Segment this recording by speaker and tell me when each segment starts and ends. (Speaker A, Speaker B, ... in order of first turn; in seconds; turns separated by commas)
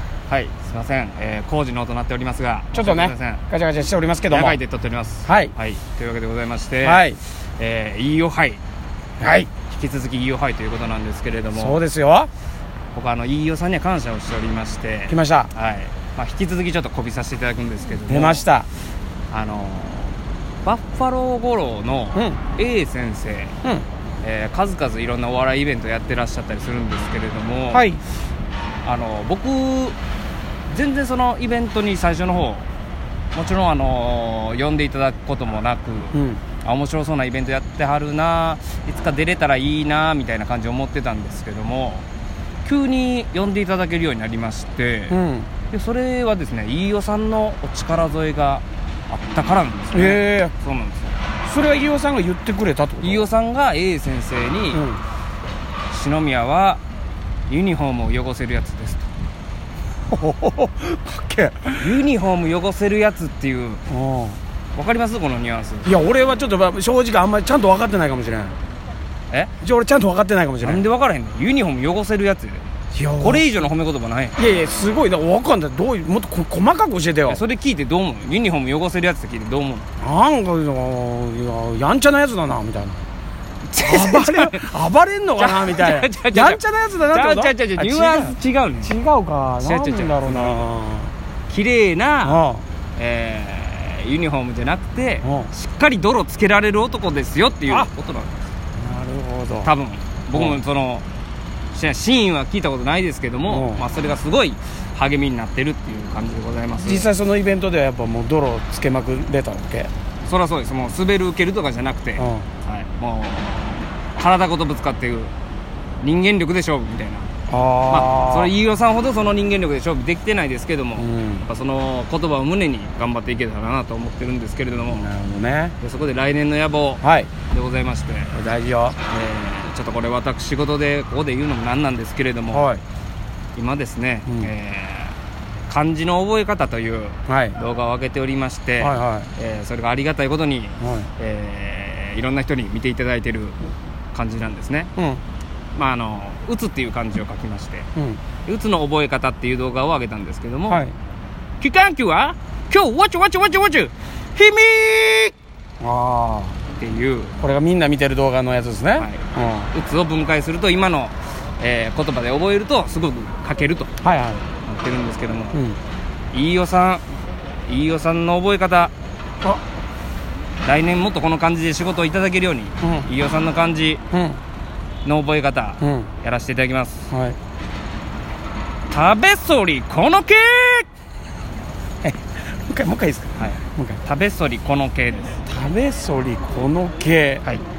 Speaker A: 0.3-3.4, Speaker B: 2.7-4.6, Speaker A: 4.3-7.1, Speaker B: 5.2-5.5, Speaker B: 6.8-7.2, Speaker A: 7.6-8.6, Speaker B: 9.2-9.5, Speaker A: 9.6-11.8, Speaker B: 11.5-12.3, Speaker A: 12.9-18.5, Speaker B: 15.1-15.5, Speaker B: 18.1-18.7, Speaker A: 19.3-23.6, Speaker B: 22.1-22.4, Speaker A: 24.2-27.9, Speaker B: 27.7-28.0, Speaker A: 28.8-30.0, Speaker A: 30.7-32.7, Speaker A: 33.3-42.1, Speaker B: 36.1-36.4, Speaker A: 42.6-45.2, Speaker B: 45.1-45.5, Speaker A: 45.7-51.1, Speaker B: 49.9-50.5, Speaker B: 51.5-53.3, Speaker A: 53.0-54.9, Speaker B: 54.7-55.0, Speaker A: 55.9-56.8, Speaker A: 57.5-59.1, Speaker B: 60.1-62.0, Speaker A: 61.8-63.8, Speaker B: 63.9-64.4, Speaker A: 64.8-65.9, Speaker B: 65.8-68.6, Speaker B: 69.6-70.8, Speaker A: 70.6-72.7, Speaker B: 72.9-73.5, Speaker A: 73.2-74.4, Speaker B: 74.4-77.4, Speaker A: 77.3-79.9, Speaker B: 80.0-83.0, Speaker A: 83.7-84.7, Speaker B: 83.8-91.1, Speaker A: 85.4-89.0, Speaker A: 89.6-90.7, Speaker A: 91.5-92.4, Speaker B: 92.2-92.7, Speaker A: 93.0-98.4, Speaker B: 95.2-95.5, Speaker B: 98.8-99.7, Speaker A: 99.6-101.0, Speaker B: 100.3-100.6, Speaker A: 101.7-107.1, Speaker B: 103.5-103.8, Speaker B: 106.8-109.9, Speaker A: 110.2-115.3, Speaker B: 112.2-112.5, Speaker A: 116.0-117.3, Speaker B: 117.5-118.5, Speaker A: 117.9-125.1, Speaker B: 121.0-121.5, Speaker B: 124.9-125.8, Speaker A: 125.8-128.3, Speaker B: 127.0-127.3, Speaker B: 128.3-129.0, Speaker A: 129.1-132.7, Speaker B: 132.5-132.8, Speaker A: 133.6-135.2, Speaker B: 134.3-134.5, Speaker A: 135.7-143.6, Speaker B: 137.3-137.6, Speaker B: 138.8-139.3, Speaker B: 140.8-141.1, Speaker A: 144.1-144.9, Speaker A: 145.8-147.9, Speaker A: 148.4-150.8, Speaker B: 150.7-150.9, Speaker A: 151.6-155.3, Speaker B: 155.8-156.6, Speaker A: 156.7-157.4, Speaker B: 157.4-159.7, Speaker A: 159.0-163.9, Speaker B: 164.0-164.4, Speaker A: 164.6-165.6, Speaker B: 165.5-165.8, Speaker A: 166.3-167.0, Speaker A: 167.7-168.9, Speaker A: 170.6-174.0, Speaker B: 172.8-173.1, Speaker B: 174.1-174.4, Speaker A: 175.1-177.1, Speaker B: 175.8-176.1, Speaker B: 177.1-177.4, Speaker A: 178.9-180.9, Speaker B: 182.0-184.0, Speaker A: 183.4-185.4, Speaker B: 185.5-187.5